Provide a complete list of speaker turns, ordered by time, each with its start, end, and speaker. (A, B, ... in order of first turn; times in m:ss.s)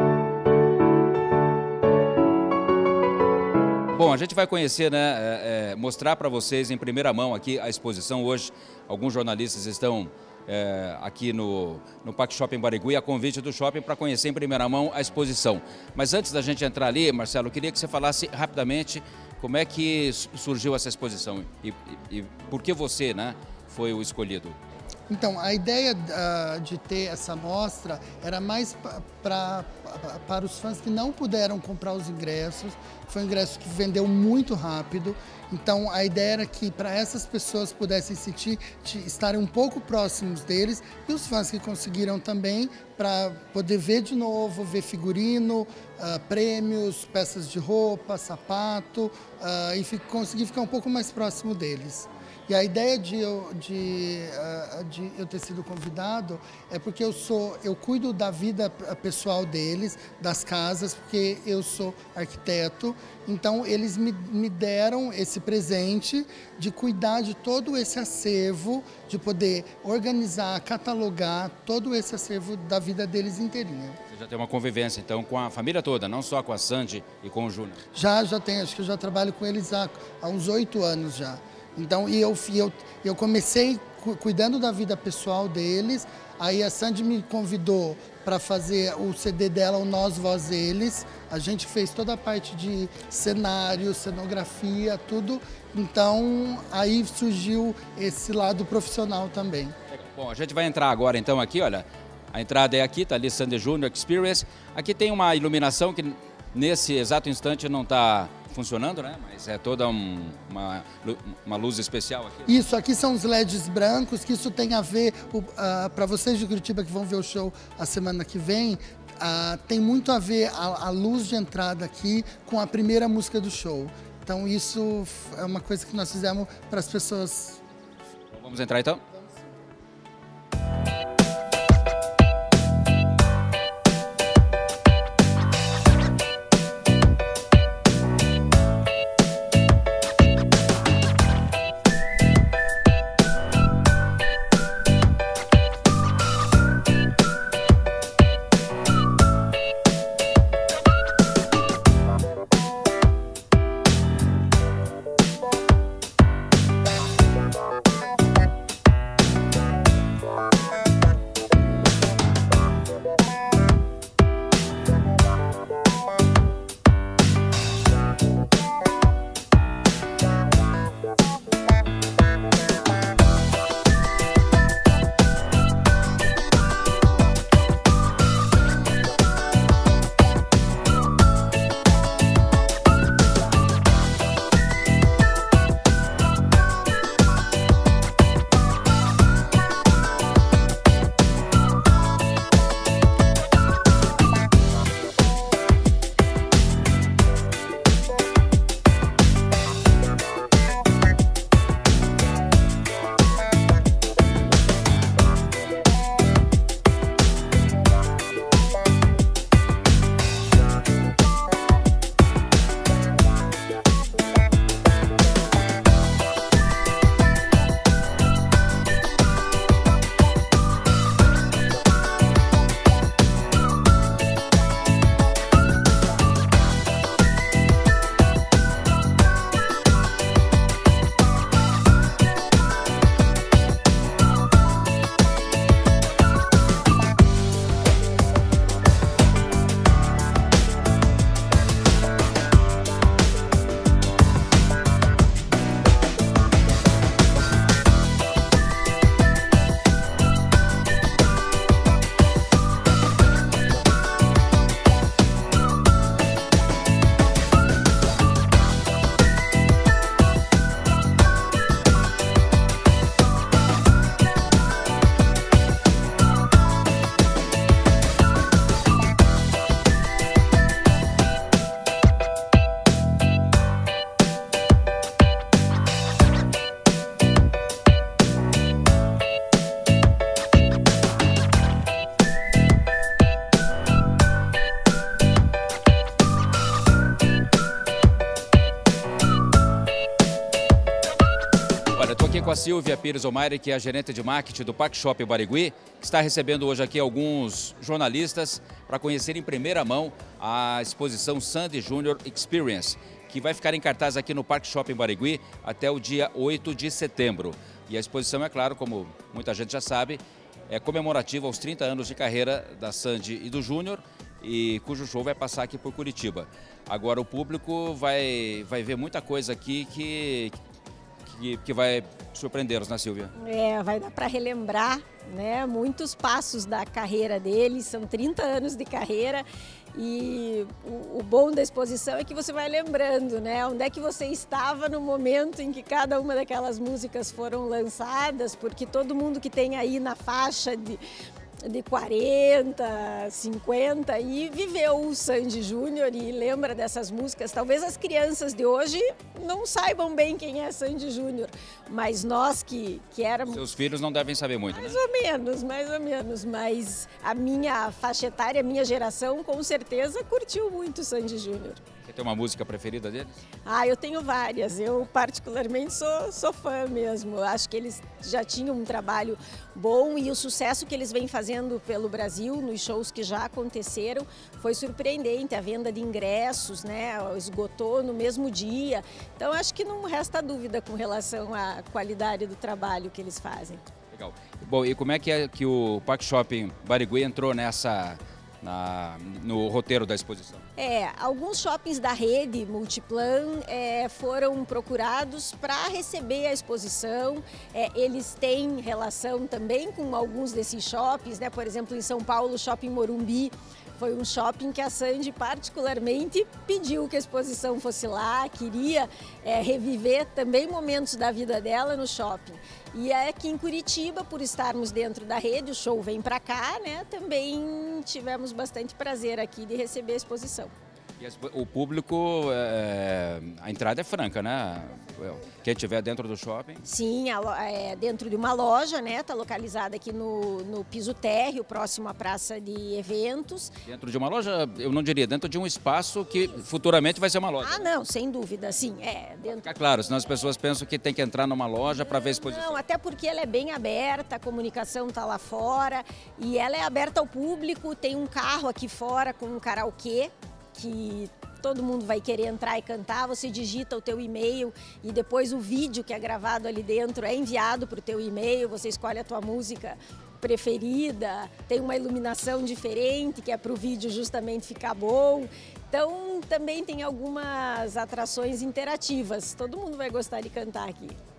0:03.9-0:24.6 A
0:25.1-1:14.0 B
1:14.1-1:17.8 A
1:17.9-1:39.7 B
1:39.9-1:52.5 A
1:52.5-2:07.6 B
2:08.3-2:09.0 A
4:51.9-5:20.6 A
5:21.2-5:23.3 A
5:23.4-5:41.0 C
5:41.6-5:53.6 C
5:53.5-5:55.0 A
5:54.7-6:01.8 C
6:02.0-6:03.4 A
6:03.6-6:23.9 C
6:24.1-6:30.6 A
6:30.8-7:00.7 C
7:01.2-7:06.8 A
7:06.8-7:13.7 C
7:13.8-7:17.9 A
7:17.6-7:19.6 C
7:19.5-7:22.8 A
7:21.9-7:51.2 C